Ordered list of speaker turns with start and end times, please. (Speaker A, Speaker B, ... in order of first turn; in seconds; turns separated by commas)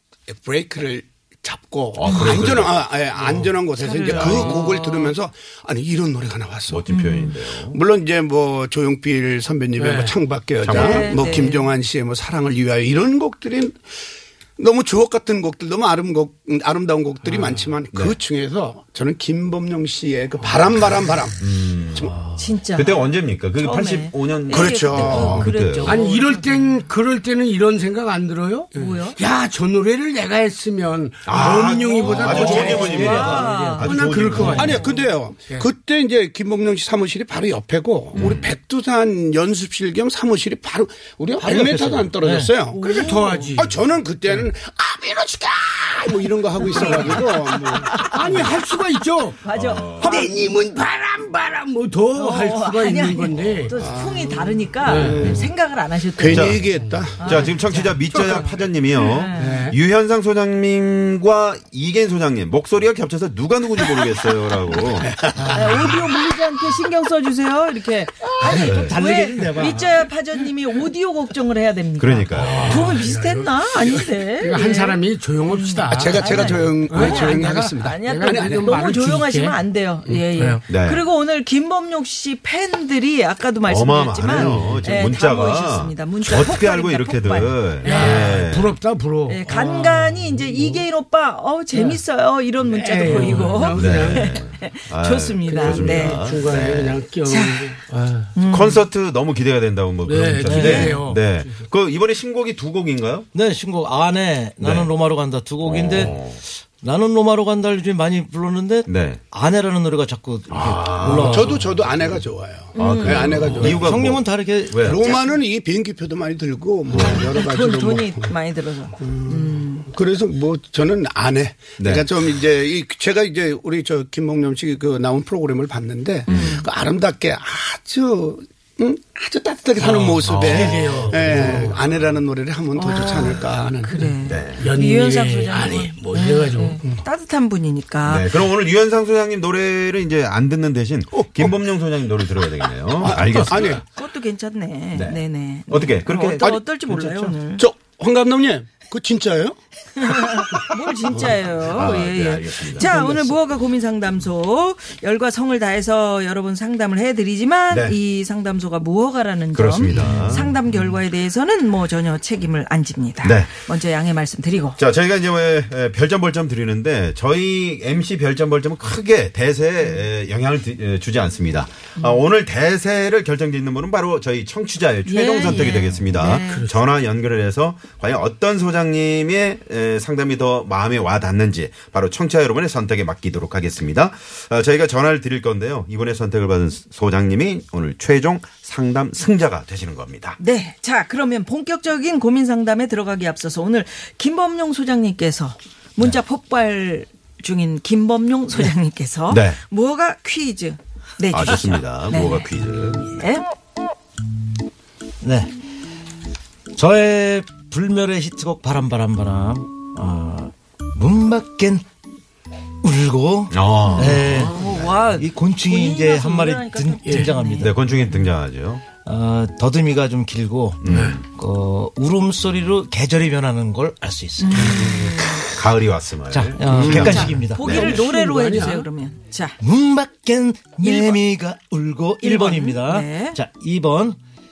Speaker A: 0.3-6.8, Speaker B: 1.9-3.5, Speaker C: 2.0-2.4, Speaker C: 3.8-5.1, Speaker B: 4.1-4.6, Speaker B: 6.7-7.8, Speaker C: 6.9-7.3, Speaker A: 7.7-13.8, Speaker D: 9.8-10.1, Speaker B: 10.6-11.1, Speaker C: 10.7-11.7, Speaker A: 14.6-22.1, Speaker D: 17.3-17.6, Speaker B: 21.4-22.2, Speaker C: 22.4-23.1, Speaker B: 22.7-26.0, Speaker C: 23.6-26.8, Speaker A: 24.5-25.5, Speaker D: 25.8-34.9, Speaker C: 28.7-29.2, Speaker B: 31.2-34.8, Speaker C: 31.8-35.0, Speaker E: 32.2-34.8, Speaker A: 34.5-48.5, Speaker B: 38.1-38.5, Speaker E: 41.4-42.5, Speaker C: 42.7-43.6, Speaker D: 42.8-43.8, Speaker C: 46.6-48.2, Speaker D: 46.7-47.2, Speaker D: 48.0-53.9, Speaker C: 49.4-50.3, Speaker B: 49.5-50.2, Speaker A: 50.0-50.3, Speaker C: 52.1-56.6, Speaker A: 53.8-55.5, Speaker D: 54.8-55.5, Speaker A: 56.2-57.5, Speaker B: 56.3-56.6, Speaker D: 56.6-56.9, Speaker C: 57.2-59.7, Speaker B: 57.2-65.2, Speaker D: 57.7-58.5, Speaker D: 59.4-59.8, Speaker A: 65.2-65.6, Speaker C: 65.5-88.4, Speaker E: 68.4-70.0, Speaker B: 68.6-69.0, Speaker B: 72.0-72.8, Speaker D: 72.3-80.6, Speaker A: 75.9-78.8, Speaker B: 80.7-81.0, Speaker B: 83.6-88.7, Speaker D: 84.4-84.8, Speaker D: 87.8-90.8, Speaker C: 89.3-96.3, Speaker D: 91.7-92.0, Speaker D: 92.6-94.4, Speaker B: 93.7-97.0, Speaker D: 95.5-98.3, Speaker C: 97.3-97.8, Speaker C: 98.3-98.8, Speaker B: 98.5-103.3, Speaker D: 100.0-101.6, Speaker E: 100.4-100.9, Speaker C: 100.5-101.0, Speaker E: 103.3-111.6, Speaker B: 104.6-104.9, Speaker B: 105.6-106.4, Speaker B: 108.9-109.2, Speaker B: 110.5-112.2, Speaker A: 111.0-114.0, Speaker C: 112.7-113.6, Speaker B: 112.8-115.1, Speaker E: 113.5-115.1, Speaker A: 114.8-118.3, Speaker B: 116.9-117.3, Speaker C: 117.0-119.9, Speaker A: 119.0-134.1, Speaker B: 121.8-122.0, Speaker B: 126.3-126.5, Speaker C: 126.3-126.6, Speaker D: 129.8-131.8, Speaker B: 130.2-132.2, Speaker C: 132.7-138.3, Speaker B: 134.2-134.7, Speaker D: 134.6-136.8, Speaker B: 138.0-143.8, Speaker A: 143.0-143.8, Speaker C: 143.8-147.6, Speaker B: 144.9-147.4, Speaker A: 147.6-149.6, Speaker C: 150.0-164.8, Speaker B: 151.7-153.0, Speaker A: 152.8-153.2, Speaker B: 157.7-158.0, Speaker B: 159.5-160.5, Speaker B: 163.2-163.5, Speaker B: 164.8-190.4, Speaker C: 175.1-176.7, Speaker D: 176.2-176.7, Speaker C: 190.4-202.5, Speaker B: 199.3-199.6, Speaker B: 201.3-203.1, Speaker C: 203.1-203.4, Speaker E: 205.2-205.5, Speaker E: 206.7-211.8, Speaker E: 212.8-214.6, Speaker B: 213.5-214.8, Speaker C: 214.0-218.2, Speaker E: 215.2-217.8, Speaker B: 217.6-218.8, Speaker E: 219.0-225.5, Speaker B: 220.8-221.2, Speaker D: 220.9-221.2, Speaker C: 224.4-225.4, Speaker B: 225.5-227.9, Speaker E: 226.3-227.9, Speaker A: 226.7-227.2, Speaker C: 226.8-229.6, Speaker D: 227.6-228.9, Speaker E: 229.6-234.2, Speaker C: 230.8-231.2, Speaker C: 232.2-233.4